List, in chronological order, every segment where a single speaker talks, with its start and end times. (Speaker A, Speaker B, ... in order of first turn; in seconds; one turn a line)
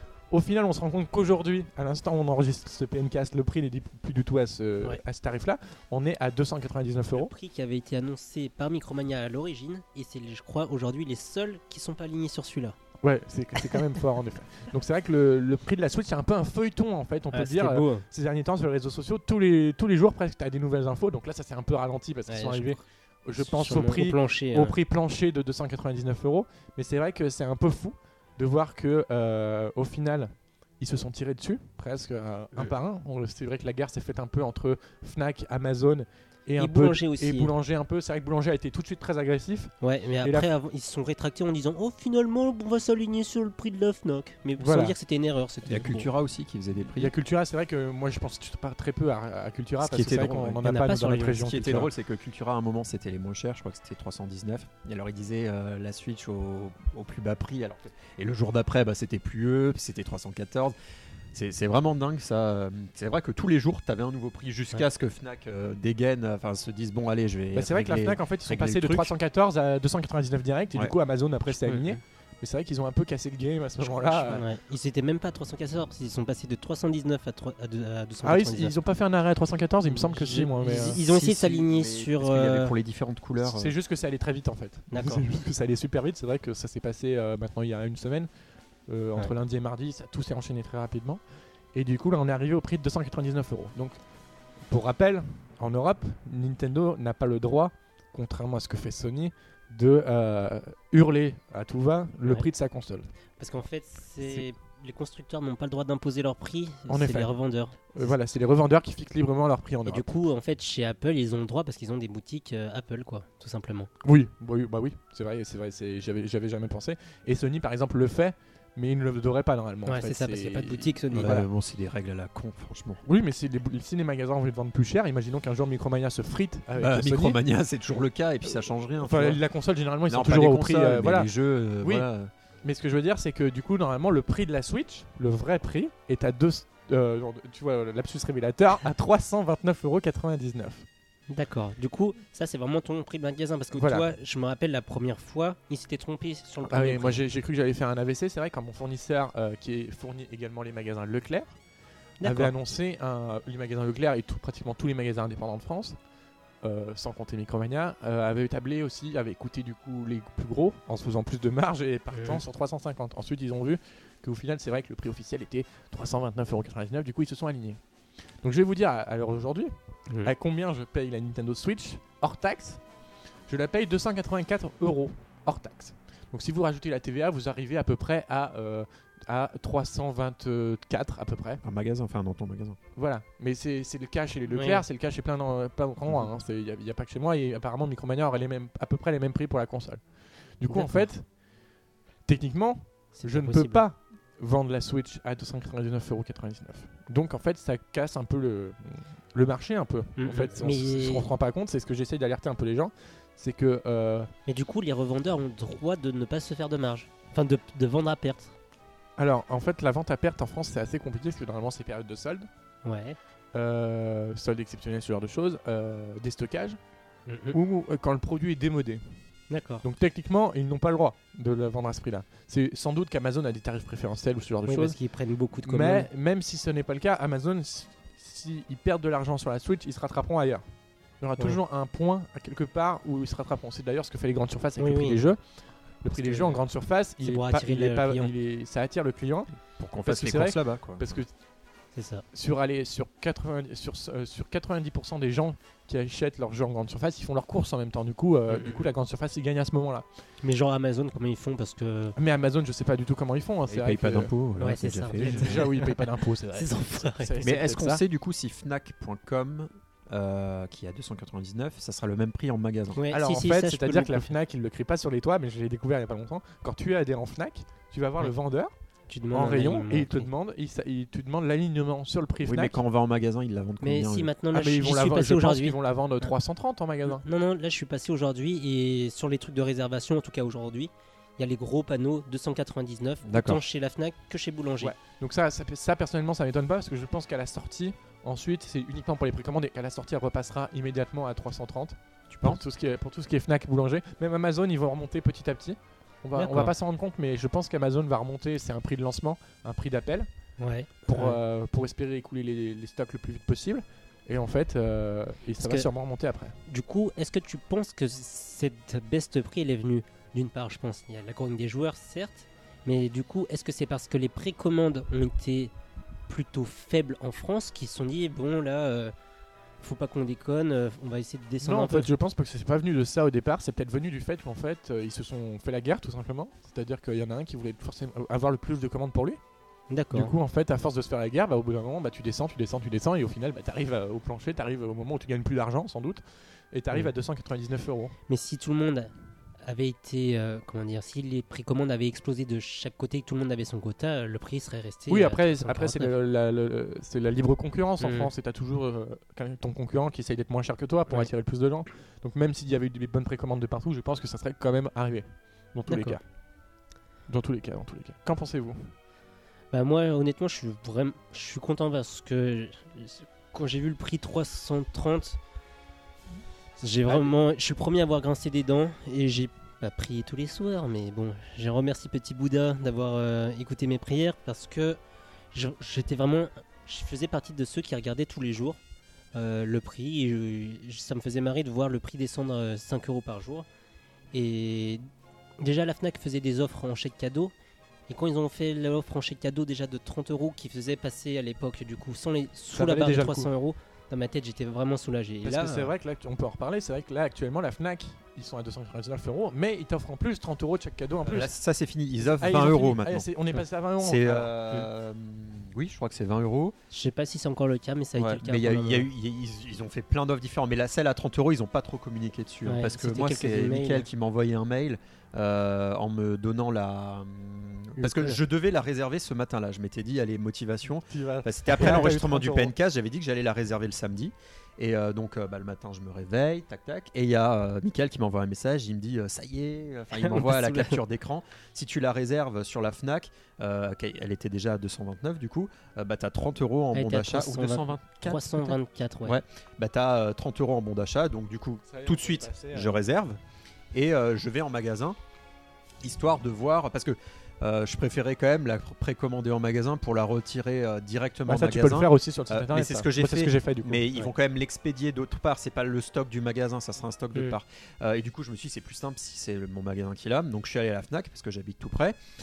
Speaker A: 0.3-7.3
Speaker B: 7.2-12.8
Speaker A: 13.0-39.7
Speaker B: 13.6-14.0
Speaker B: 17.3-18.0
Speaker B: 22.3-22.8
Speaker B: 23.4-24.7
Speaker B: 36.6-37.5
Speaker B: 39.8-46.1
Speaker A: 40.2-40.5
Speaker A: 44.6-44.9
Speaker C: 45.6-47.1
Speaker A: 47.0-51.9
Speaker C: 49.8-50.6
Speaker B: 50.6-51.7
Speaker C: 51.4-60.7
Speaker C: 61.3-69.1
Speaker A: 67.5-74.4
Speaker B: 71.6-72.0
Speaker B: 74.0-78.7
Speaker C: 74.2-74.4
Speaker A: 78.2-81.0
Speaker B: 79.9-82.7
Speaker C: 80.9-83.7
Speaker A: 83.4-88.3
Speaker B: 84.9-85.2
Speaker A: 88.9-91.2
Speaker A: 91.7-94.0
Speaker A: 94.7-103.1
Speaker B: 103.4-108.1
Speaker A: 106.9-107.3
Speaker A: 107.9-110.1
Speaker B: 109.8-113.9
Speaker A: 114.0-121.5
Speaker B: 119.8-121.4
Speaker C: 121.1-123.0
Speaker A: 123.0-127.4
Speaker C: 126.8-129.4
Speaker A: 129.0-131.3
Speaker C: 130.1-132.3
Speaker A: 131.8-132.1
Speaker A: 132.6-140.8
Speaker B: 141.3-147.2
Speaker A: 143.7-144.1
Speaker A: 146.7-151.6
Speaker B: 152.2-152.5
Speaker A: 152.2-156.0
Speaker A: 156.6-167.8
Speaker B: 162.1-162.4
Speaker A: 168.4-172.8
Speaker A: 173.5-181.6
Speaker C: 181.6-182.8
Speaker A: 182.9-190.0
Speaker B: 184.5-184.8
Speaker A: 190.6-191.2
Speaker B: 190.7-191.1
Speaker A: 192.2-204.3
Speaker B: 193.2-193.8
Speaker B: 200.2-201.3
Speaker B: 204.5-208.5
Speaker A: 209.2-212.5
Speaker B: 212.8-213.2
Speaker A: 213.5-216.8
Speaker B: 217.3-217.6
Speaker A: 217.5-219.0
Speaker B: 219.5-219.8
Speaker A: 219.8-224.9
Speaker B: 224.7-226.1
Speaker A: 225.6-230.6
Speaker A: 231.2-235.4
Speaker B: 234.8-235.2
Speaker A: 236.0-239.5
Speaker B: 236.2-236.6
Speaker B: 237.2-238.3
Speaker C: 239.8-241.2
Speaker A: 240.0-241.3
Speaker B: 241.9-242.2
Speaker A: 242.3-250.1
Speaker B: 250.4-252.2
Speaker A: 252.2-254.3
Speaker C: 253.7-255.6
Speaker B: 254.6-257.3
Speaker A: 255.1-258.0
Speaker C: 257.4-263.0
Speaker B: 262.9-264.3
Speaker A: 263.1-268.7
Speaker B: 269.1-270.3
Speaker A: 269.3-272.8
Speaker C: 272.4-274.3
Speaker B: 273.8-275.8
Speaker A: 274.5-277.2
Speaker B: 277.1-284.9
Speaker C: 283.2-283.6
Speaker A: 284.8-300.3
Speaker C: 292.3-292.6
Speaker B: 296.4-296.7
Speaker B: 300.6-301.4
Speaker A: 301.1-306.6
Speaker B: 305.6-305.9
Speaker B: 306.7-315.7
Speaker B: 316.3-319.1
Speaker B: 319.8-322.1
Speaker A: 321.6-329.4
Speaker B: 329.9-330.3
Speaker A: 330.1-338.1
Speaker B: 338.3-339.1
Speaker B: 339.6-346.1
Speaker A: 345.1-356.2
Speaker B: 348.0-348.3
Speaker B: 355.9-356.2
Speaker A: 357.3-358.9
Speaker B: 359.7-365.4
Speaker B: 366.8-375.0
Speaker A: 367.1-367.3
Speaker B: 375.5-378.8
Speaker B: 379.3-383.7
Speaker B: 384.3-385.0
Speaker B: 385.6-387.5
Speaker B: 388.1-395.9
Speaker A: 392.7-393.5
Speaker A: 395.4-401.5
Speaker C: 401.2-403.2
Speaker A: 402.2-404.5
Speaker C: 404.0-406.7
Speaker B: 406.9-409.1
Speaker C: 408.2-443.4
Speaker B: 412.6-414.1
Speaker A: 421.1-422.7
Speaker B: 430.1-431.0
Speaker B: 436.9-439.4
Speaker A: 441.9-443.0
Speaker C: 443.9-445.2
Speaker C: 446.0-462.2
Speaker A: 451.5-454.3